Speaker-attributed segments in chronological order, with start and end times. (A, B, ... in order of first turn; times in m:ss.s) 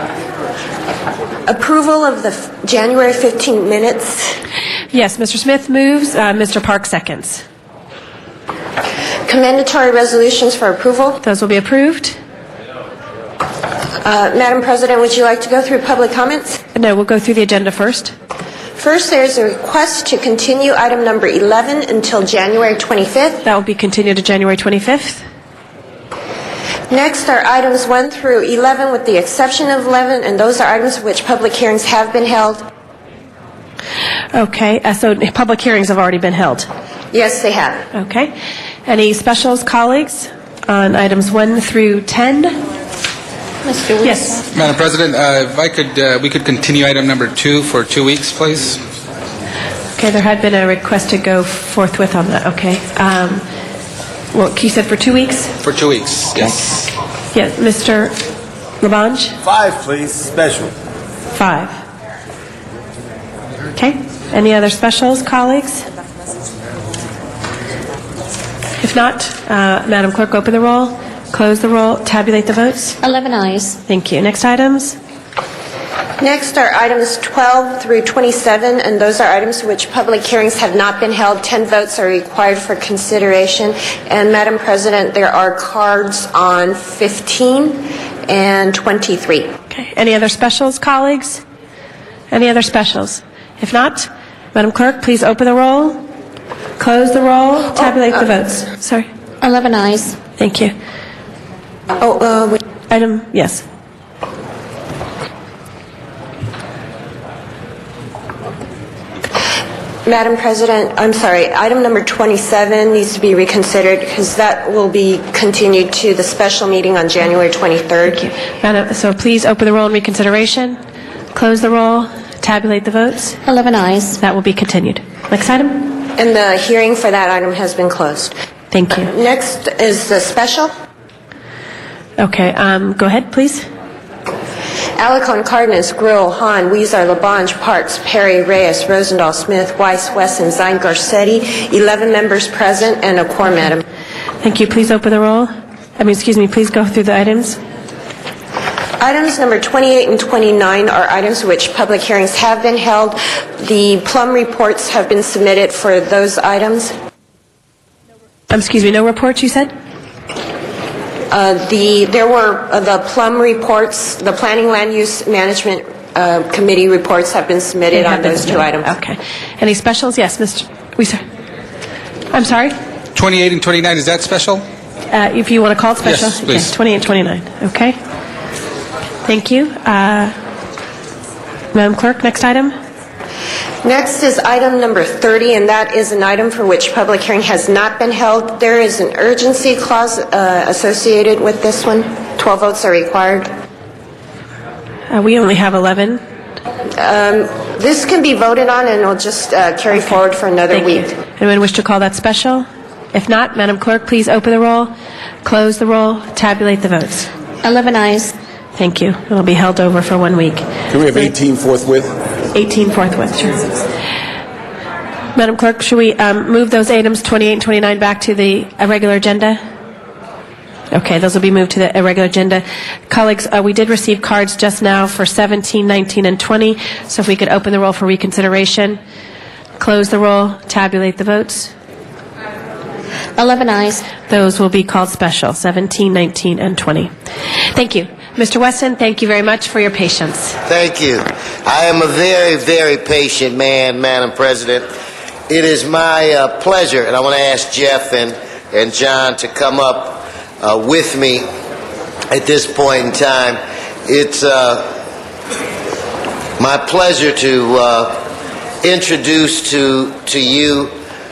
0:01.5-0:04.4 A
0:04.9-0:07.4 B
0:09.3-0:11.2 A
0:11.2-0:12.2 B
0:14.0-0:16.6 A
0:16.8-0:18.1 B
0:18.8-0:23.4 A
0:23.4-0:25.2 B
0:26.9-0:32.7 A
0:34.3-0:36.7 B
0:37.1-0:37.9 A
0:37.9-0:38.3 B
0:38.9-0:42.6 B
0:43.6-0:44.4 C
0:44.0-0:44.4 B
0:44.5-0:48.8 D
0:50.0-0:53.4 B
0:54.3-0:55.5 B
0:55.6-0:56.9 D
0:57.3-0:58.2 B
0:58.8-0:59.4 B
0:59.4-1:00.7 E
1:01.3-1:01.8 B
1:03.8-1:05.9 B
1:08.8-1:13.0 B
1:13.0-1:13.8 C
1:13.9-1:15.0 B
1:16.2-1:29.5 A
1:29.7-1:31.4 B
1:32.3-1:36.0 B
1:36.8-1:39.1 B
1:39.4-1:40.2 C
1:40.4-1:40.7 B
1:42.0-1:42.6 A
1:42.9-1:43.6 B
1:50.0-1:58.2 A
1:58.1-2:00.8 B
2:01.3-2:03.4 B
2:03.4-2:04.2 C
2:04.2-2:05.9 B
2:06.0-2:08.3 A
2:08.7-2:09.1 B
2:08.9-2:10.7 A
2:12.2-2:13.6 B
2:15.0-2:23.8 A
2:24.4-2:27.6 B
2:29.0-2:36.9 A
2:38.5-2:39.7 B
2:41.3-2:48.9 A
2:47.9-2:51.2 B
2:52.3-2:52.8 B
2:53.2-2:54.6 D
2:55.1-2:58.0 B
2:56.0-2:56.7 D
2:59.2-3:00.4 B
3:01.7-3:02.7 B
3:03.8-3:13.5 A
3:15.1-3:16.2 B
3:17.0-3:21.2 A
3:20.7-3:24.9 B
3:25.4-3:27.3 B
3:27.6-3:28.3 C
3:28.8-3:30.6 B
3:30.9-3:32.2 E
3:32.5-3:33.8 B
3:35.4-3:39.6 B
3:40.9-3:49.0 B
3:49.8-3:51.7 B
3:53.4-3:54.1 C
3:54.2-3:57.1 B
3:57.7-4:00.6 B
4:00.6-4:04.9 F
4:05.5-4:11.5 F
4:12.3-4:14.9 F
4:16.6-4:18.2 F
4:18.8-4:20.9 F